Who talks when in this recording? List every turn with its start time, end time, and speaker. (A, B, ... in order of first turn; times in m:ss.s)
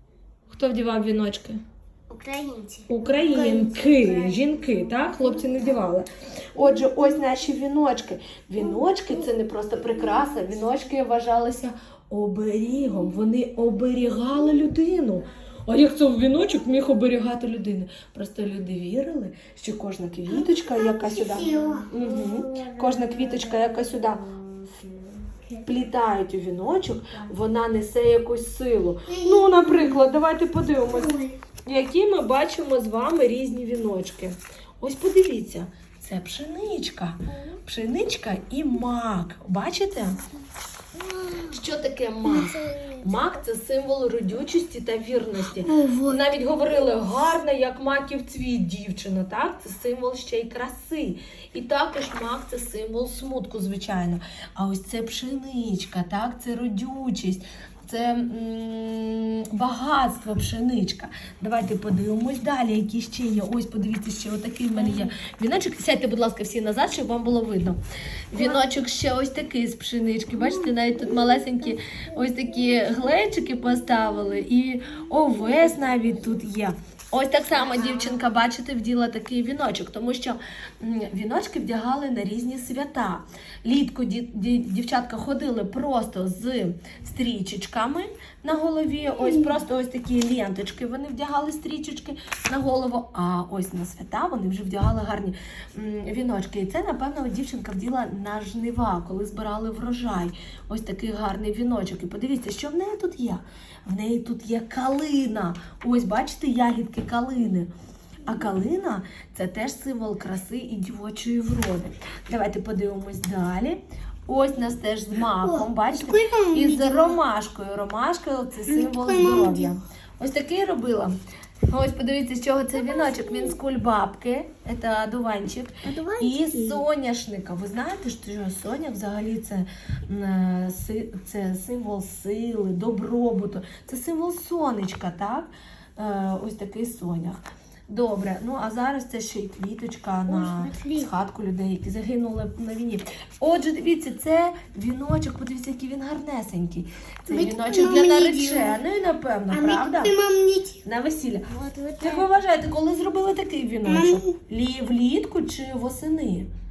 0:00.5-0:01.6 A
0:02.1-0:05.9 B
0:02.9-0:24.3 A
0:20.3-0:22.8 B
0:24.8-0:25.3 B
0:25.6-0:40.2 A
0:29.1-0:30.0 B
0:30.8-0:31.4 B
0:41.0-0:41.5 B
0:41.5-1:07.8 A
0:42.2-0:43.0 B
0:45.6-0:46.2 B
1:08.3-1:47.7 A
1:08.4-1:08.6 B
1:10.4-1:11.2 B
1:17.5-1:18.2 B
1:29.2-1:29.6 B
1:48.2-2:01.2 A
1:55.3-1:57.2 B
1:58.7-1:59.7 B
2:01.7-2:30.1 A
2:02.8-2:03.6 B
2:05.8-2:06.8 B
2:20.3-2:21.1 B
2:27.3-2:28.8 B
2:29.5-2:30.8 B
2:30.8-2:31.5 A
2:31.5-2:32.3 B
2:32.0-2:36.5 A
2:33.8-2:34.3 B